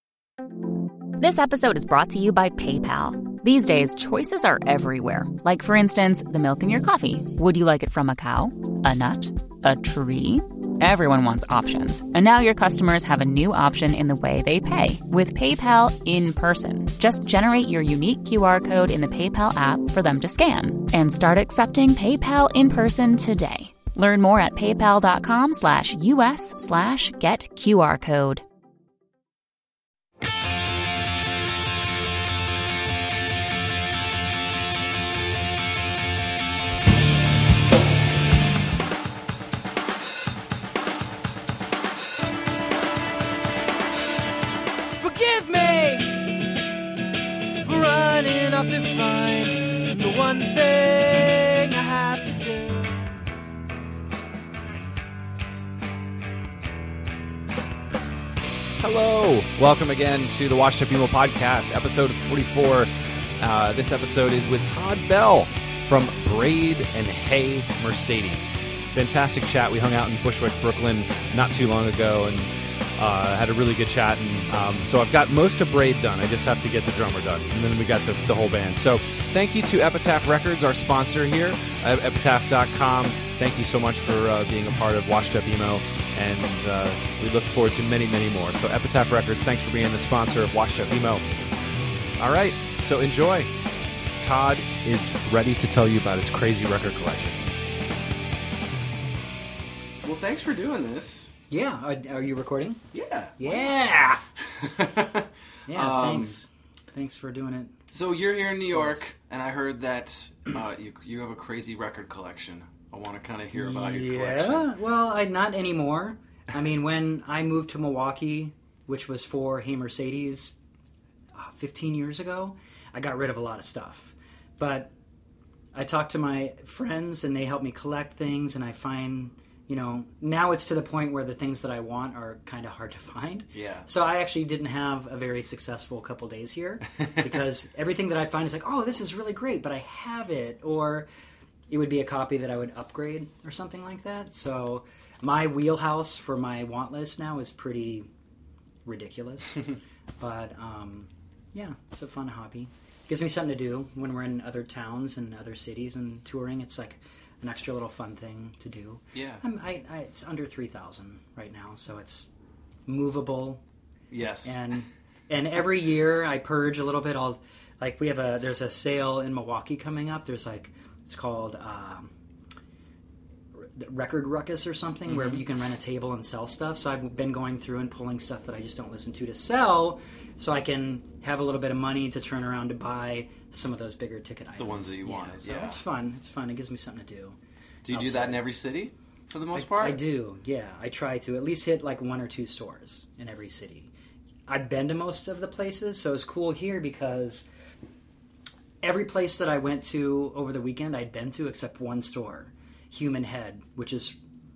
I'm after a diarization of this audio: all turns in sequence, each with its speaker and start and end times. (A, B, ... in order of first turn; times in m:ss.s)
0:01.2-0:28.4 A
0:45.0-0:46.4 B
0:47.6-0:53.0 B
0:58.8-1:02.9 C
1:03.4-1:31.3 C
1:32.2-1:33.5 C
1:34.2-1:37.5 C
1:40.0-1:41.3 D
1:41.5-1:42.8 E
1:42.9-1:43.8 D
1:43.4-1:44.2 E
1:44.5-1:46.4 D
1:45.6-1:47.8 E
1:47.9-1:54.7 D
1:48.7-1:49.0 E
1:53.5-2:00.5 E
2:01.3-2:04.9 E
2:05.7-2:21.1 E
2:13.5-2:13.9 D
2:21.7-2:28.1 E
2:28.8-2:29.7 E
2:30.2-2:42.3 E
2:39.1-2:39.4 D
2:42.9-2:43.6 E
2:44.1-2:44.6 D
2:44.4-2:52.1 E
2:53.6-3:07.4 E
2:55.1-2:55.4 D
3:04.6-3:05.8 D
3:07.8-3:10.0 D
3:07.9-3:08.4 E
3:09.5-3:13.9 E
3:14.5-3:17.4 E
3:18.8-3:24.2 E